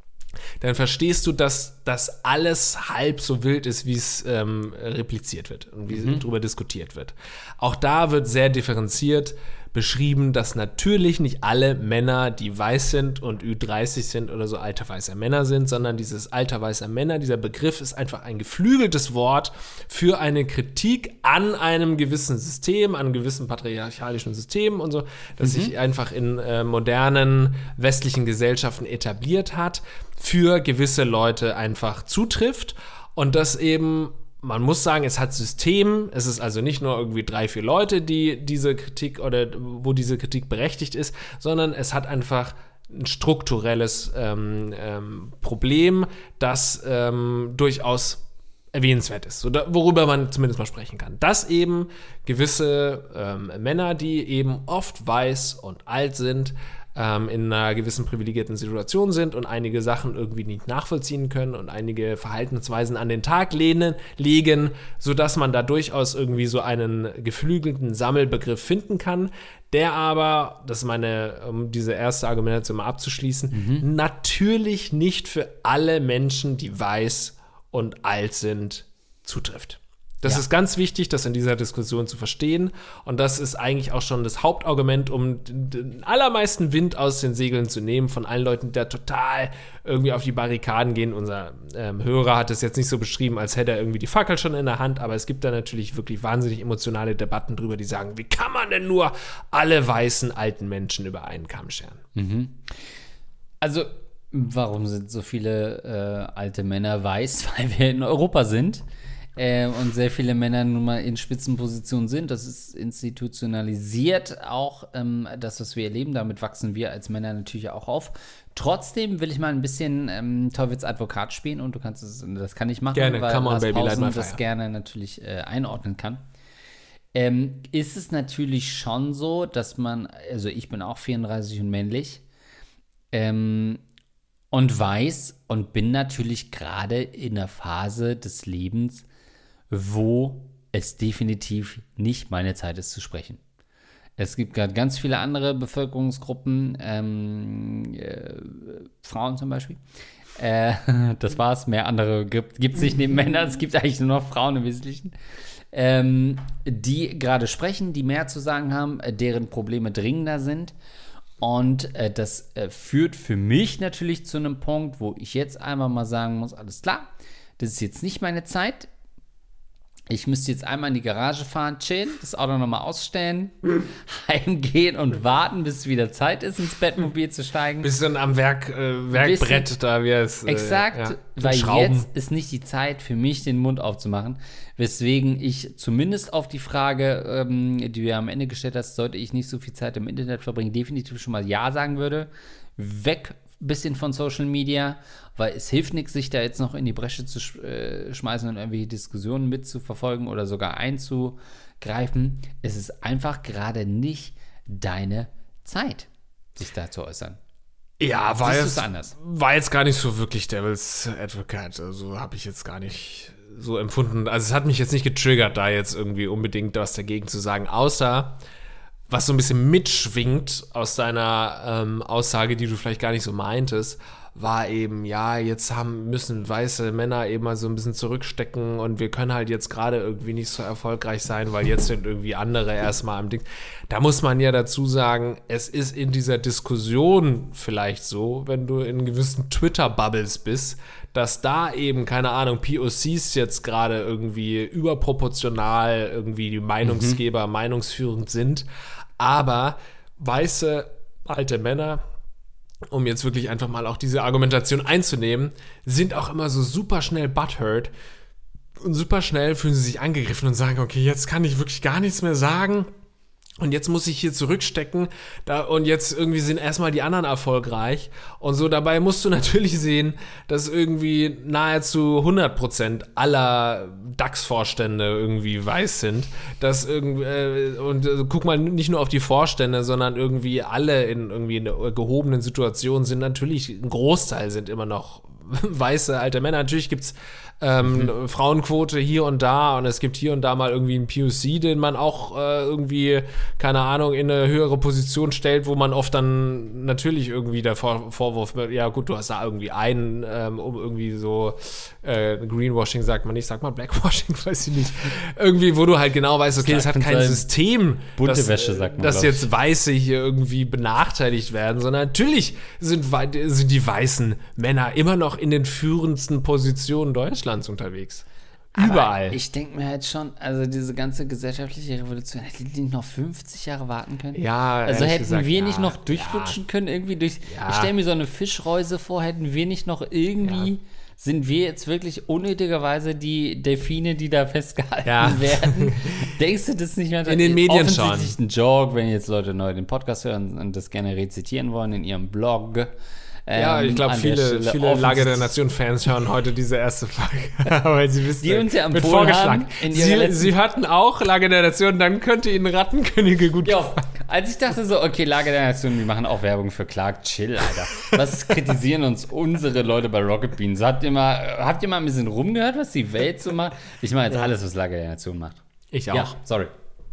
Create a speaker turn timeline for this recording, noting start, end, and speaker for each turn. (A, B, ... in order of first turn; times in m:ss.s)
0:00.6-1:42.0 A
0:05.9-0:06.2 B
0:25.4-0:25.7 B
1:13.5-1:13.9 B
1:42.2-1:42.7 B
1:43.6-1:48.8 B
1:49.4-2:06.2 B
2:02.9-2:04.4 A
2:07.1-2:12.2 B
2:13.1-2:13.8 B
2:14.5-2:19.1 B
2:19.7-2:23.4 B
2:24.2-2:29.8 B
2:30.4-2:35.1 B
2:35.7-2:40.8 B
2:41.4-2:47.1 B
2:47.6-2:48.9 B
2:50.1-2:57.9 B
2:57.8-3:02.1 A
2:59.1-2:59.7 B
3:00.5-3:27.4 B
3:28.0-3:38.4 A
3:28.4-3:29.2 B
3:39.1-4:08.7 A
4:06.8-4:07.2 B
4:09.2-4:12.0 A
4:12.9-4:17.9 A
4:18.8-4:22.9 A
4:23.6-5:19.4 A
5:06.6-5:07.5 B
5:08.2-5:09.5 B
5:18.8-5:42.9 B
5:24.3-5:26.6 A
5:27.5-5:27.9 A
5:35.0-5:36.3 A
5:37.3-5:38.4 A
5:43.5-5:45.5 B
5:43.5-5:54.0 A
5:48.4-5:50.5 B
5:53.6-6:05.6 B
6:05.9-6:06.4 A
6:06.1-6:06.7 B